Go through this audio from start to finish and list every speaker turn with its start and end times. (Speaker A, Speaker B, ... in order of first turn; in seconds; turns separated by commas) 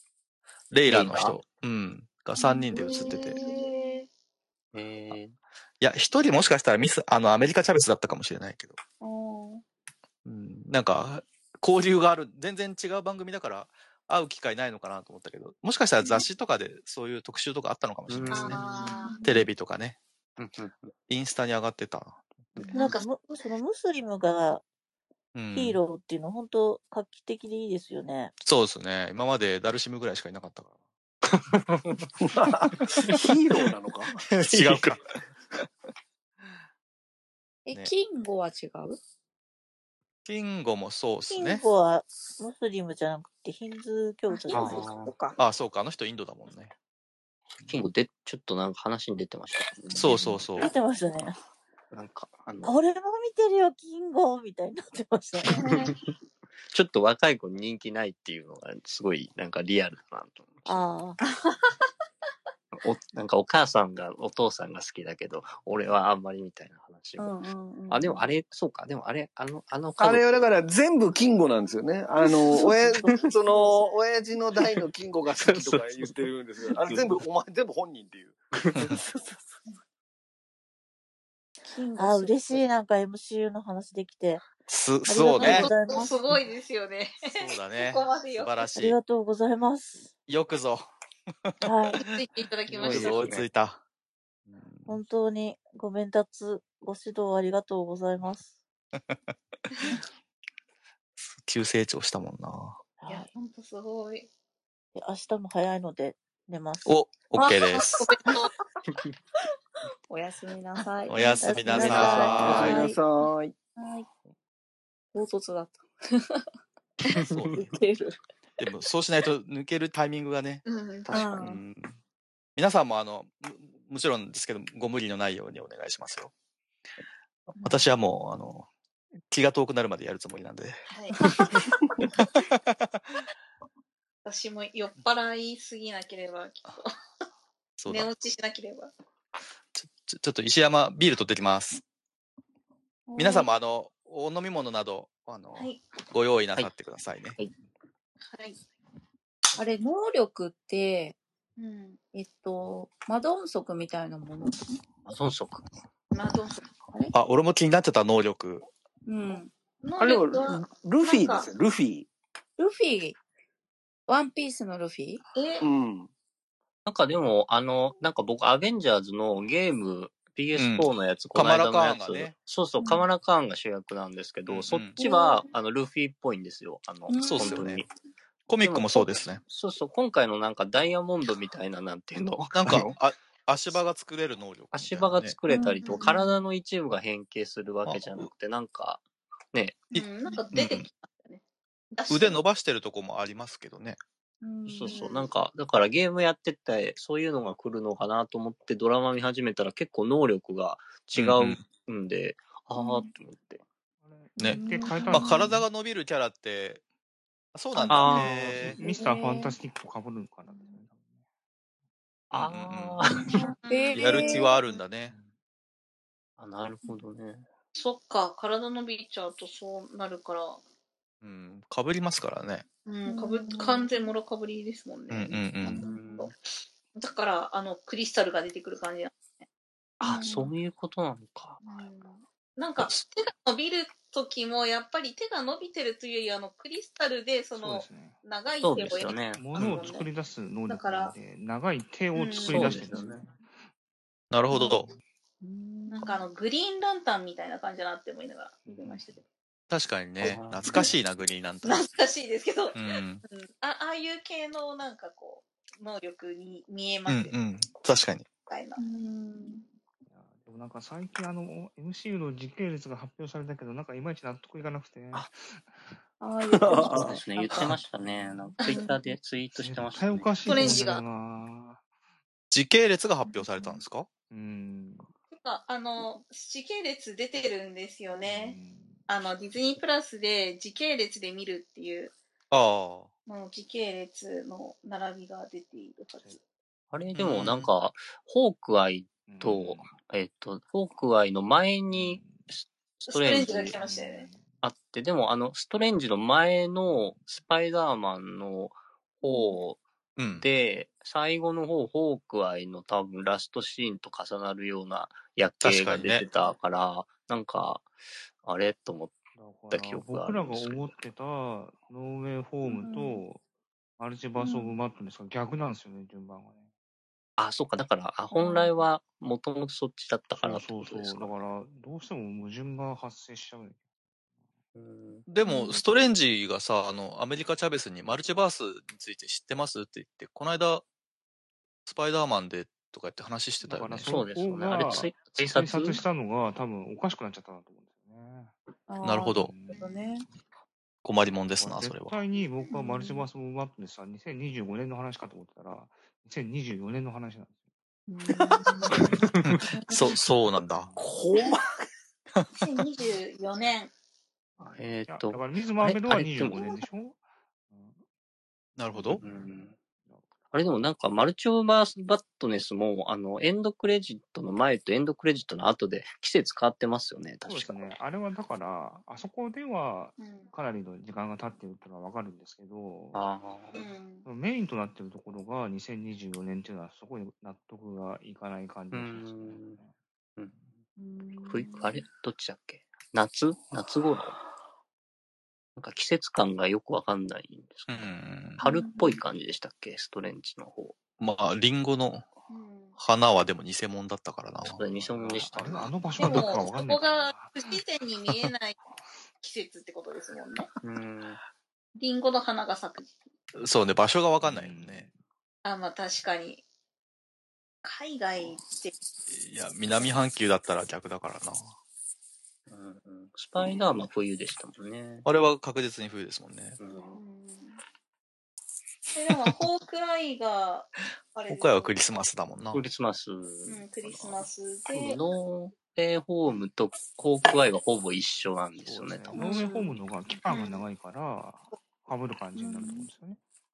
Speaker A: 0.7-3.4, Speaker B: 0.8-1.4, Speaker C: 2.4-4.0, Speaker D: 2.7-4.1, Speaker B: 4.7-5.4, Speaker A: 5.8-8.8, Speaker C: 9.0-9.6, Speaker A: 10.2-18.6, Speaker B: 18.1-18.9, Speaker D: 18.3-19.2, Speaker C: 18.8-19.5, Speaker A: 19.2-20.0, Speaker B: 20.4-20.9, Speaker A: 21.1-22.2, Speaker B: 22.6-22.9, Speaker D: 22.6-23.3, Speaker E: 22.8-24.6, Speaker A: 25.4-25.8, Speaker E: 25.5-28.3, Speaker A: 28.4-30.7, Speaker B: 31.5-32.0, Speaker F: 32.2-34.2, Speaker A: 34.2-35.0, Speaker B: 34.5-35.0, Speaker C: 37.7-39.0, Speaker A: 40.2-41.6, Speaker E: 41.3-44.9, Speaker C: 44.3-45.4, Speaker B: 44.5-45.1, Speaker A: 45.4-46.7, Speaker B: 47.7-50.5, Speaker A: 50.0-50.7, Speaker E: 50.6-51.4, Speaker B: 51.9-52.8, Speaker E: 52.6-55.7, Speaker D: 55.5-55.9, Speaker B: 56.7-60.9, Speaker E: 60.7-61.2, Speaker B: 62.7-67.3, Speaker C: 67.2-68.3, Speaker B: 67.9-70.5, Speaker F: 70.0-78.4, Speaker C: 72.2-72.5, Speaker E: 72.5-73.7, Speaker B: 75.4-77.2, Speaker B: 78.6-79.0, Speaker C: 81.7-82.7, Speaker E: 82.0-84.5, Speaker A: 84.7-85.7, Speaker E: 85.1-86.1, Speaker D: 85.4-88.7, Speaker A: 87.4-89.0, Speaker E: 88.7-90.1, Speaker A: 90.3-90.9, Speaker A: 91.5-92.0, Speaker E: 91.6-92.0, Speaker D: 92.0-93.3, Speaker B: 92.7-93.5, Speaker A: 92.8-93.8, Speaker A: 94.5-95.0, Speaker E: 94.9-98.5, Speaker A: 99.0-99.3, Speaker A: 101.2-102.8, Speaker E: 103.0-103.3, Speaker D: 103.1-104.3, Speaker E: 105.0-106.9, Speaker A: 106.9-108.1, Speaker C: 107.3-108.5, Speaker D: 108.0-108.5, Speaker C: 110.1-113.2, Speaker A: 111.1-112.8, Speaker E: 111.4-112.6, Speaker F: 112.3-113.6, Speaker B: 112.4-112.7, Speaker C: 113.8-114.1, Speaker C: 115.1-116.4, Speaker A: 117.3-117.7, Speaker C: 117.5-118.2, Speaker A: 118.6-122.0, Speaker D: 120.7-121.4, Speaker C: 121.1-121.6, Speaker A: 122.6-126.3, Speaker A: 127.5-128.7, Speaker D: 127.6-127.9, Speaker A: 129.3-133.2, Speaker D: 130.9-131.8, Speaker D: 134.2-137.0, Speaker A: 137.8-138.1, Speaker D: 137.9-138.9, Speaker A: 139.8-141.8, Speaker C: 143.1-143.5, Speaker A: 143.2-147.4, Speaker D: 145.6-145.8, Speaker D: 148.3-148.6, Speaker C: 149.6-151.2, Speaker D: 151.6-152.0, Speaker C: 152.1-154.7, Speaker B: 155.1-155.6, Speaker D: 156.1-156.6, Speaker A: 157.1-158.7, Speaker C: 159.1-159.5, Speaker D: 159.8-161.5, Speaker F: 160.0-162.1, Speaker C: 162.6-163.2, Speaker C: 164.1-165.2, Speaker D: 165.3-165.7, Speaker F: 165.6-166.1, Speaker B: 166.9-177.9, Speaker A: 170.6-172.3, Speaker C: 172.8-173.1, Speaker A: 174.5-175.0, Speaker C: 175.0-175.5, Speaker C: 177.1-177.8, Speaker A: 177.2-177.8, Speaker A: 178.5-179.4, Speaker B: 178.6-182.9, Speaker A: 182.4-185.4, Speaker B: 184.7-189.8, Speaker C: 185.5-186.2, Speaker D: 185.8-186.2, Speaker A: 187.9-188.3, Speaker D: 189.9-191.4, Speaker A: 190.5-190.9, Speaker D: 191.9-192.4, Speaker A: 192.1-194.0, Speaker C: 194.4-195.1, Speaker B: 194.7-203.6, Speaker D: 194.9-195.3, Speaker A: 201.2-201.6, Speaker C: 202.8-203.1, Speaker G: 204.0-205.6, Speaker A: 204.4-206.8, Speaker C: 204.4-205.5, Speaker A: 207.6-208.8, Speaker C: 207.8-208.2, Speaker B: 207.9-208.7, Speaker G: 208.0-211.1, Speaker C: 208.8-209.6, Speaker B: 212.3-213.3, Speaker A: 212.3-213.1, Speaker C: 213.3-214.6, Speaker D: 213.3-214.8, Speaker A: 213.9-215.1, Speaker B: 216.4-217.5, Speaker D: 217.8-220.6, Speaker A: 221.2-222.7, Speaker D: 222.9-226.3, Speaker C: 223.1-223.9, Speaker A: 225.1-225.8, Speaker B: 225.6-226.3, Speaker C: 225.7-226.1, Speaker D: 226.9-229.4, Speaker B: 230.0-231.6, Speaker C: 230.0-230.5, Speaker D: 230.1-230.4, Speaker D: 231.6-240.1, Speaker G: 237.5-238.2, Speaker B: 238.6-239.4, Speaker G: 239.0-243.5, Speaker A: 239.6-239.8, Speaker D: 240.7-241.1, Speaker D: 242.1-242.8, Speaker B: 242.4-243.2, Speaker A: 244.3-244.9, Speaker C: 244.5-244.8, Speaker C: 245.4-246.3, Speaker D: 245.9-249.2, Speaker G: 248.7-249.2, Speaker A: 249.7-251.9, Speaker B: 250.2-250.9, Speaker D: 251.6-257.3, Speaker A: 252.8-253.2, Speaker A: 257.1-258.3, Speaker D: 258.5-258.8, Speaker C: 258.8-259.7, Speaker G: 260.1-265.9, Speaker C: 266.2-267.8, Speaker F: 266.5-267.1, Speaker B: 266.8-270.9, Speaker G: 268.0-268.8, Speaker G: 269.5-271.8, Speaker D: 270.5-271.0, Speaker A: 272.5-274.1, Speaker G: 274.3-275.1, Speaker D: 275.3-278.6, Speaker G: 278.2-279.1, Speaker D: 279.1-282.1, Speaker A: 282.5-283.1, Speaker D: 283.3-286.4, Speaker B: 286.9-293.8, Speaker A: 287.1-287.7, Speaker G: 289.3-290.0, Speaker G: 291.9-292.5, Speaker D: 293.1-294.3, Speaker G: 293.3-294.5, Speaker B: 294.6-299.8, Speaker A: 300.2-300.5, Speaker B: 300.4-307.9, Speaker A: 305.6-306.2, Speaker B: 308.4-309.2, Speaker G: 309.4-313.4, Speaker B: 309.7-311.0, Speaker C: 312.6-313.3, Speaker G: 314.0-316.7, Speaker C: 314.4-314.8, Speaker B: 317.4-321.4, Speaker C: 318.3-318.8, Speaker G: 320.4-323.8, Speaker B: 324.8-325.3, Speaker A: 325.3-330.9, Speaker D: 325.4-325.8, Speaker A: 331.9-334.1, Speaker G: 333.6-338.5, Speaker B: 334.1-336.0, Speaker C: 338.9-340.3, Speaker A: 339.0-339.5, Speaker G: 339.4-339.9, Speaker A: 341.0-342.2, Speaker G: 341.6-347.6, Speaker C: 342.7-343.3, Speaker C: 348.1-349.2, Speaker A: 349.4-350.9, Speaker C: 349.7-350.2, Speaker G: 350.6-351.1, Speaker F: 351.0-351.9, Speaker D: 352.5-353.9, Speaker B: 354.6-356.9, Speaker G: 355.1-358.0, Speaker A: 358.8-359.2, Speaker G: 358.9-360.2, Speaker B: 359.2-359.8, Speaker B: 360.5-367.9, Speaker G: 367.4-373.3, Speaker D: 370.2-370.5, Speaker B: 373.1-373.8, Speaker D: 373.7-374.3, Speaker G: 374.2-379.9, Speaker B: 378.9-379.8, Speaker C: 381.0-381.9, Speaker B: 381.5-384.4, Speaker B: 385.8-388.1, Speaker A: 387.9-388.6, Speaker B: 388.6-391.0, Speaker C: 388.6-388.9, Speaker A: 391.2-392.3, Speaker D: 392.5-393.0, Speaker A: 393.0-394.8, Speaker B: 394.7-396.6, Speaker G: 394.9-397.8, Speaker D: 396.2-398.8, Speaker D: 399.4-400.7, Speaker B: 400.8-401.4, Speaker D: 401.9-403.1, Speaker A: 403.6-405.1, Speaker G: 404.4-405.1, Speaker D: 405.6-406.6, Speaker D: 407.8-408.9, Speaker A: 409.3-411.7, Speaker B: 412.7-415.3, Speaker A: 415.2-416.8, Speaker B: 416.8-417.2, Speaker D: 417.1-417.8, Speaker D: 419.1-422.0, Speaker A: 421.5-422.8, Speaker B: 422.7-429.6, Speaker D: 423.7-425.2, Speaker G: 428.8-433.4, Speaker C: 429.4-430.0, Speaker D: 430.5-430.9, Speaker C: 432.6-433.1